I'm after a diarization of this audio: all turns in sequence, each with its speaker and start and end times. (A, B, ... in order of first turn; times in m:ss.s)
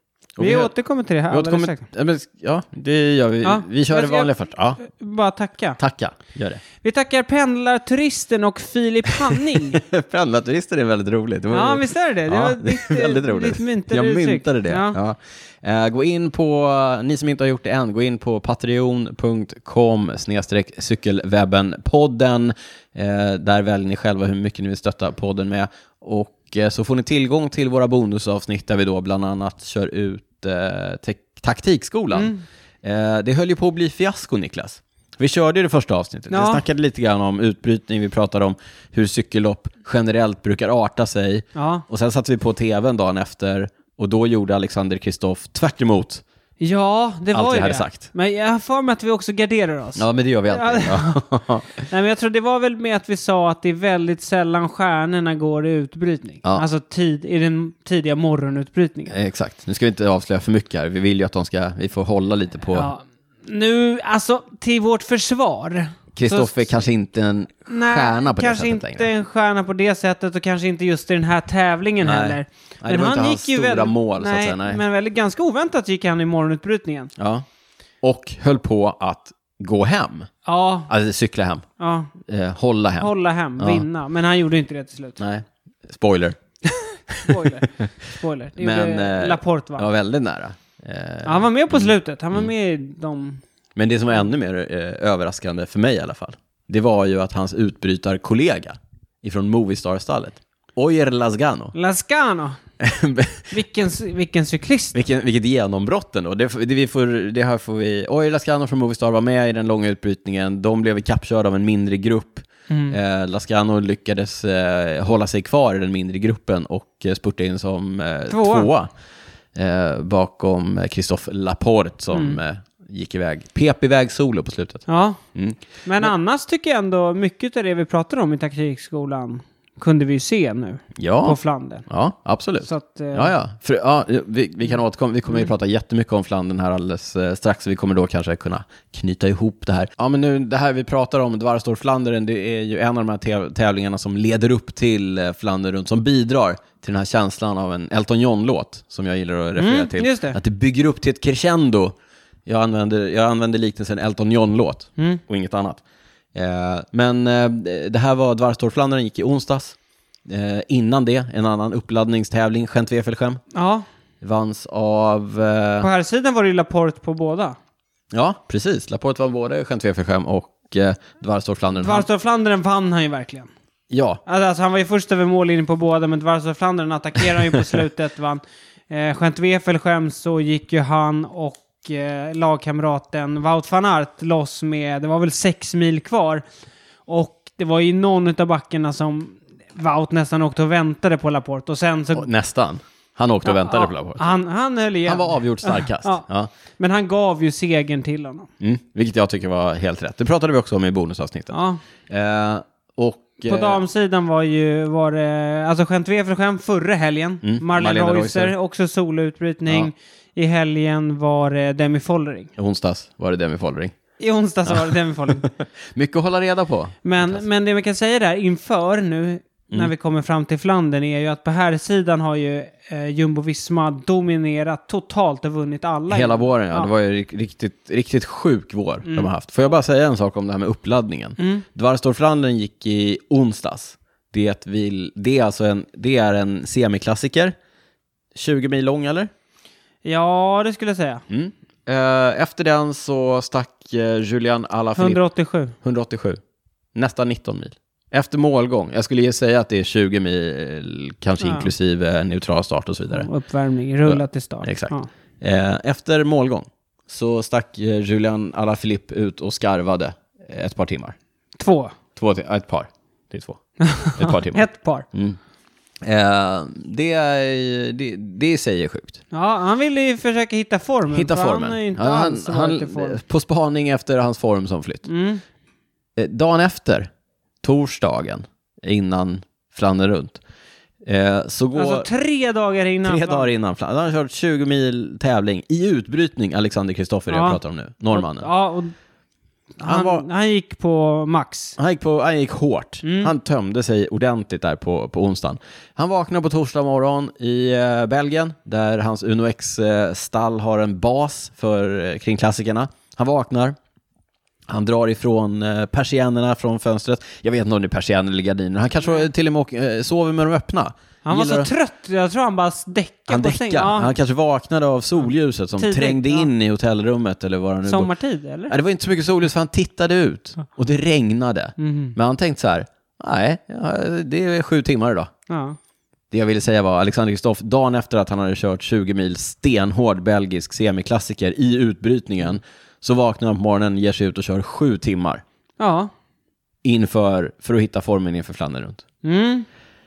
0:00.4-0:00.7 A
0:00.4-0:01.8 B
0:01.3-0:04.8 A
0:03.4-0:05.8 B
0:05.8-0:06.6 A
0:06.8-0:09.8 B
0:09.3-0:32.3 A
0:11.5-0:15.0 B
0:32.1-0:32.4 B
0:32.8-0:46.2 A
0:36.3-0:36.6 B
0:41.5-0:41.8 B
0:46.6-0:51.2 B
0:47.3-0:48.1 A
0:50.0-0:51.8 A
0:51.8-0:59.2 B
0:59.1-1:02.9 A
1:02.7-1:06.7 B
1:06.1-1:09.1 A
1:07.7-1:17.1 B
1:12.0-1:14.8 A
1:17.2-1:17.4 A
1:18.0-1:20.3 A
1:20.4-1:20.9 B
1:20.9-1:21.6 A
1:21.8-1:22.1 B
1:22.2-1:23.8 A
1:23.0-1:25.2 B
1:25.2-1:26.4 A
1:26.8-1:29.8 B
1:27.1-1:27.9 A
1:28.6-1:32.5 A
1:31.2-1:33.4 B
1:33.8-1:41.7 A
1:41.7-1:42.6 B
1:42.8-1:43.5 A
1:43.5-1:44.9 B
1:44.9-1:58.9 A
1:52.7-1:53.0 B
1:58.3-1:58.7 B
1:59.5-2:06.1 A
2:02.1-2:02.4 B
2:04.9-2:05.2 B
2:05.8-2:11.8 B
2:11.0-2:31.9 A
2:12.6-2:13.3 B
2:29.6-2:30.4 B
2:32.4-2:35.8 A
2:36.3-2:43.4 A
2:43.5-2:43.8 B
2:44.2-2:45.9 A
2:45.8-2:47.6 B
2:48.1-2:52.1 A
2:51.8-2:53.5 B
2:53.9-2:54.2 A
2:54.2-3:06.4 B
3:07.1-3:12.3 B
3:12.1-3:14.3 A
3:13.4-3:16.2 B
3:15.0-3:16.5 A
3:16.8-3:18.5 B
3:18.6-3:21.6 A
3:21.5-3:21.8 B
3:22.1-3:23.8 A
3:23.5-3:32.5 B
3:27.4-3:28.5 A
3:32.6-3:33.9 A
3:34.2-3:35.5 B
3:35.4-3:37.4 A
3:37.0-3:46.9 B
3:46.1-3:57.5 A
3:51.4-3:51.6 B
3:58.3-3:59.3 A
4:00.0-4:01.2 B
4:01.3-4:05.2 A
4:05.0-4:05.7 B
4:05.8-4:06.4 A
4:06.9-4:13.3 A
4:11.4-4:11.7 B
4:13.1-4:15.1 B
4:14.0-4:21.1 A
4:21.6-4:21.9 B
4:22.1-4:23.6 A
4:23.8-4:25.1 B
4:24.1-4:25.4 A
4:26.0-4:29.2 A
4:29.3-4:33.2 B
4:31.1-4:35.1 A
4:35.0-4:35.4 B
4:36.2-4:37.1 A
4:37.6-4:40.4 A
4:41.0-4:42.1 A
4:41.8-4:43.5 B
4:43.0-4:48.5 A
4:47.3-4:47.6 B
4:48.1-4:48.9 B
4:49.8-4:51.8 B
4:49.8-4:50.2 A
4:51.8-5:03.8 A
4:53.0-4:53.3 B
5:04.7-5:11.7 A
5:11.2-5:14.1 B
5:13.3-5:18.1 A
5:15.8-5:16.5 B
5:17.8-5:18.7 B
5:18.7-5:25.3 A
5:21.8-5:22.2 B
5:25.5-5:25.8 B
5:26.3-5:35.4 A
5:35.8-5:36.1 B
5:36.8-5:39.0 A
5:39.2-5:39.7 B